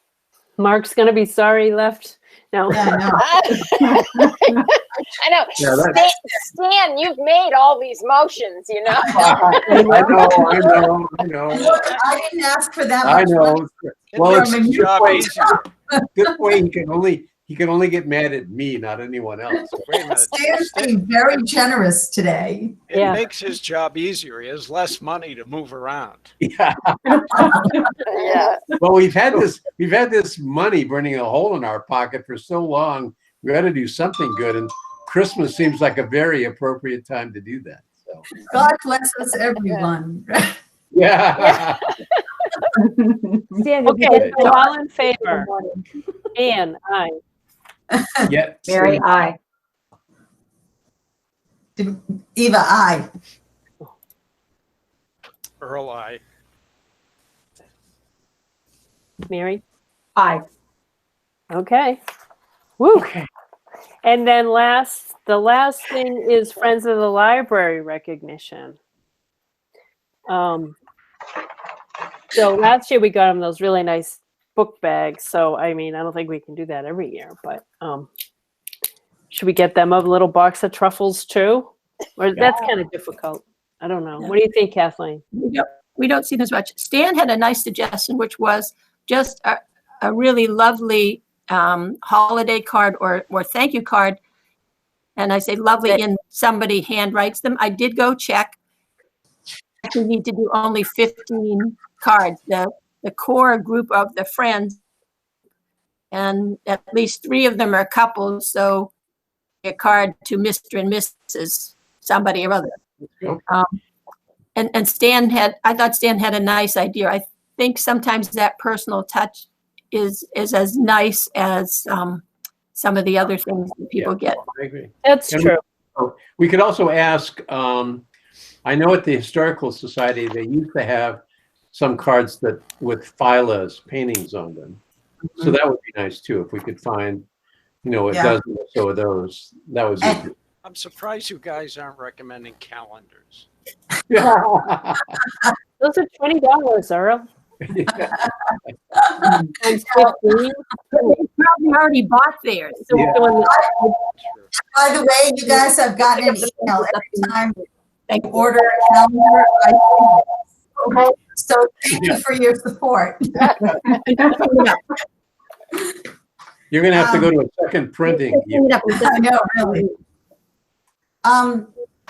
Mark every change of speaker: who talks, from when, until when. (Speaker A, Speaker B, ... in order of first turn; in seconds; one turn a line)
Speaker A: 0.6-3.0
Speaker B: 2.7-4.1
Speaker C: 3.2-9.9
Speaker D: 5.6-6.0
Speaker B: 5.8-6.4
Speaker B: 9.0-10.7
Speaker D: 9.4-11.9
Speaker A: 9.7-10.7
Speaker E: 11.2-11.6
Speaker B: 11.5-13.6
Speaker E: 13.0-13.5
Speaker D: 13.2-15.2
Speaker F: 14.1-15.7
Speaker B: 14.2-16.3
Speaker D: 16.2-19.8
Speaker F: 19.8-21.0
Speaker B: 20.2-22.8
Speaker F: 22.9-26.3
Speaker A: 22.9-23.2
Speaker D: 26.4-26.7
Speaker E: 26.6-27.1
Speaker D: 27.3-27.6
Speaker B: 27.3-27.8
Speaker C: 28.1-28.6
Speaker D: 28.8-38.2
Speaker E: 29.1-31.0
Speaker E: 34.3-34.6
Speaker B: 38.4-40.5
Speaker C: 39.6-39.9
Speaker D: 40.9-41.8
Speaker E: 43.6-44.5
Speaker A: 43.6-45.5
Speaker D: 44.1-44.5
Speaker A: 46.4-47.2
Speaker B: 47.9-48.3
Speaker D: 48.3-49.0
Speaker E: 48.6-49.4
Speaker B: 51.8-53.1
Speaker F: 55.6-56.2
Speaker A: 59.3-59.6
Speaker E: 60.1-60.4
Speaker A: 61.5-62.0
Speaker A: 62.8-63.1
Speaker D: 62.9-63.2
Speaker A: 64.0-68.8
Speaker A: 70.3-70.7
Speaker A: 72.3-78.1
Speaker A: 79.3-85.2
Speaker D: 82.3-82.6
Speaker G: 85.3-94.2
Speaker G: 95.2-98.6
Speaker G: 99.8-104.8
Speaker G: 106.1-108.9
Speaker G: 109.6-112.7
Speaker G: 113.5-113.8
Speaker G: 114.5-122.2
Speaker G: 122.7-124.4
Speaker D: 124.0-128.0
Speaker A: 125.0-125.6
Speaker D: 128.7-131.2
Speaker D: 131.7-134.8
Speaker E: 132.0-132.4
Speaker D: 135.4-137.2
Speaker D: 137.8-140.3
Speaker B: 138.1-138.4
Speaker F: 140.6-143.5
Speaker D: 144.1-144.8
Speaker A: 145.8-147.2
Speaker B: 147.9-148.3
Speaker B: 148.9-150.1
Speaker A: 149.6-151.1
Speaker G: 150.9-152.9
Speaker A: 152.9-153.9
Speaker D: 152.9-153.3
Speaker B: 153.4-153.9
Speaker F: 154.2-154.5
Speaker B: 154.6-157.7
Speaker G: 155.5-157.3
Speaker G: 158.1-158.5
Speaker B: 158.3-163.9
Speaker G: 163.8-164.9
Speaker D: 166.7-168.6
Speaker B: 166.9-167.3
Speaker G: 168.1-169.9
Speaker B: 168.9-169.8
Speaker B: 171.2-171.7